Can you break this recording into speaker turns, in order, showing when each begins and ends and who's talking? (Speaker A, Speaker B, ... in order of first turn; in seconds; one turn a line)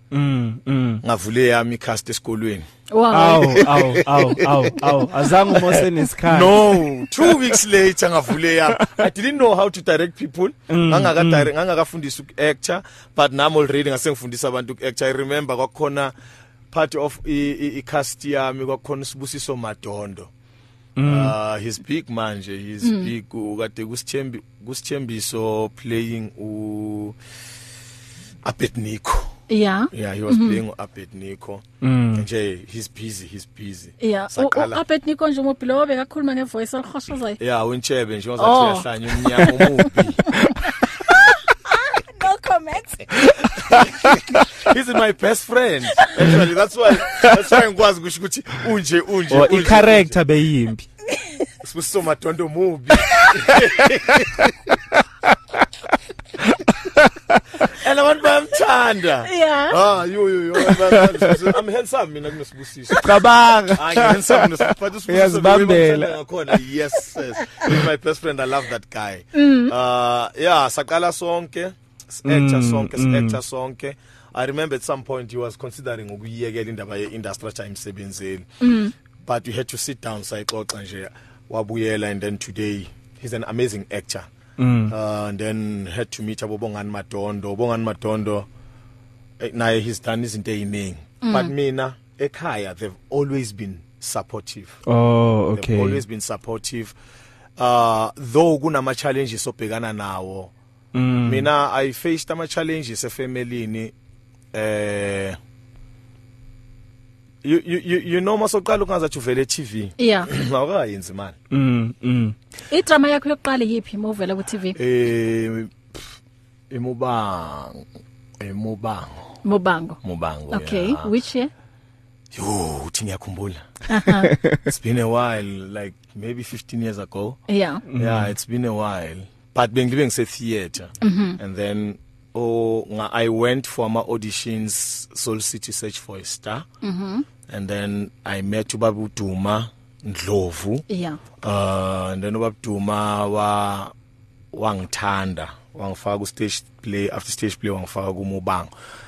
Speaker A: 0.1-1.0
Speaker B: 1.0-2.6
Speaker C: 2.9-3.7
Speaker A: 3.1-7.5
Speaker B: 3.4-16.1
Speaker A: 10.7-11.5
Speaker B: 16.7-20.3
Speaker A: 21.0-21.3
Speaker B: 21.1-27.1
Speaker C: 22.8-23.1
Speaker B: 28.4-29.4
Speaker C: 29.5-30.6
Speaker B: 29.9-34.8
Speaker A: 31.8-32.2
Speaker C: 34.0-37.4
Speaker B: 37.4-40.3
Speaker C: 38.4-39.9
Speaker C: 40.6-43.1
Speaker B: 43.6-50.2
Speaker A: 43.8-44.1
Speaker A: 49.3-50.9
Speaker B: 51.6-54.8
Speaker A: 56.5-57.4
Speaker B: 57.6-63.1
Speaker C: 59.2-59.8
Speaker A: 60.9-61.3
Speaker A: 63.0-66.2
Speaker B: 63.7-78.5
Speaker C: 69.3-69.7
Speaker A: 72.2-73.4
Speaker C: 78.6-78.9
Speaker B: 79.2-84.3
Speaker A: 84.6-84.9
Speaker B: 84.9-88.5
Speaker B: 89.4-94.8
Speaker C: 91.2-91.5
Speaker A: 94.9-96.0
Speaker B: 95.5-97.0
Speaker B: 97.6-100.5
Speaker A: 100.9-101.5
Speaker B: 101.2-103.9
Speaker B: 104.5-105.4
Speaker B: 107.4-111.4
Speaker C: 110.0-110.3
Speaker A: 111.5-112.3
Speaker C: 112.7-114.8
Speaker B: 114.8-116.1
Speaker B: 116.7-117.8
Speaker B: 118.4-119.3
Speaker C: 119.4-120.0
Speaker B: 120.0-121.1
Speaker C: 120.5-121.5
Speaker B: 122.3-123.6
Speaker C: 123.9-124.3
Speaker A: 124.3-124.6
Speaker B: 124.7-127.4
Speaker C: 127.5-127.8
Speaker A: 127.9-128.3
Speaker B: 128.0-136.7
Speaker C: 131.0-131.4
Speaker C: 136.8-137.2
Speaker B: 137.5-140.8
Speaker C: 140.9-141.2
Speaker B: 141.4-143.9
Speaker B: 144.5-148.7